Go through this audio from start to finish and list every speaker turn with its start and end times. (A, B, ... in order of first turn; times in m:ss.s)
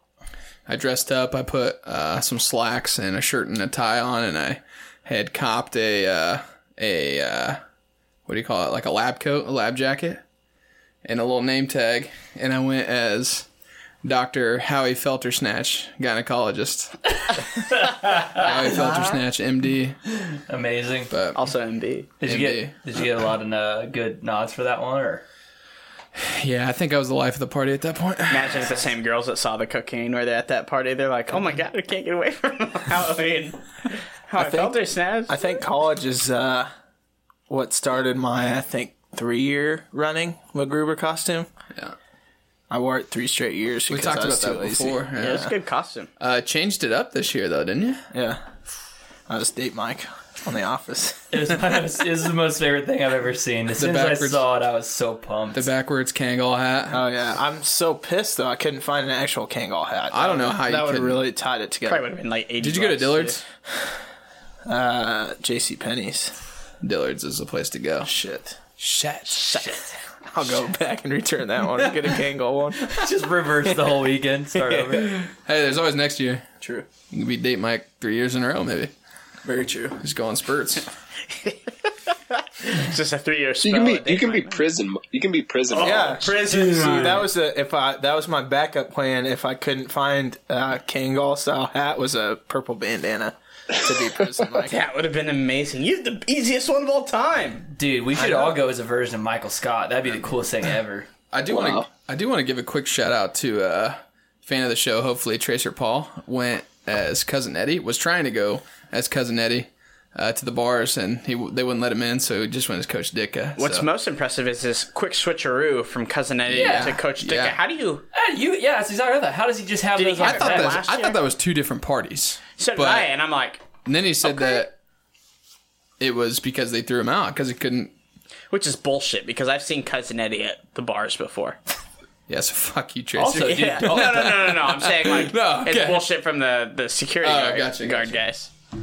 0:00.7-0:07.6 A
0:08.2-0:10.2 A
0:11.0-0:13.5 A
0:14.0-0:17.4 A
0:17.7-0:18.5 B
0:18.3-0:20.0 A
0:20.1-0:21.1 B
0:21.1-0:21.4 A
0:21.3-0:22.1 C
0:22.2-0:25.2 B
0:22.2-0:22.8 A
0:26.1-0:28.8 A
0:28.3-0:33.6 C
0:34.3-0:35.4 C
0:34.4-0:34.8 D
0:35.3-0:36.7 D
0:37.5-0:41.5 D
0:42.7-0:45.4 D
0:43.9-0:45.5 A
0:45.2-0:46.1 C
0:46.2-0:48.0 A
0:48.1-0:48.4 D
0:49.3-0:51.5 D
0:51.3-0:55.7 B
0:53.8-0:54.4 A
0:55.5-0:57.0 A
0:56.9-1:02.1 D
1:00.1-1:01.2 A
1:01.8-1:03.4 C
1:02.6-1:03.4 A
1:04.6-1:06.3 D
1:06.8-1:08.1 A
1:08.0-1:08.6 D
1:08.8-1:09.8 A
1:09.3-1:09.9 C
1:10.3-1:13.0 D
1:12.8-1:15.2 B
1:13.6-1:13.9 D
1:14.5-1:15.1 D
1:15.0-1:16.4 A
1:16.6-1:16.9 D
1:17.0-1:18.9 A
1:19.4-1:20.0 D
1:20.0-1:20.9 A
1:22.6-1:24.6 C
1:23.6-1:26.3 E
1:25.7-1:27.3 C
1:25.8-1:34.8 D
1:34.6-1:37.7 C
1:37.7-1:41.1 B
1:38.1-1:38.6 D
1:41.3-1:53.9 A
1:41.5-1:41.9 E
1:53.6-1:58.0 C
1:56.5-1:57.6 A
1:56.5-1:57.0 B
1:58.1-2:00.8 B
2:00.0-2:01.2 C
2:00.2-2:03.1 A
2:02.6-2:03.6 C
2:03.8-2:04.7 A
2:06.0-2:07.9 A
2:08.5-2:11.6 C
2:12.3-2:16.1 A
2:13.2-2:14.4 B
2:13.4-2:18.5 C
2:17.2-2:18.2 A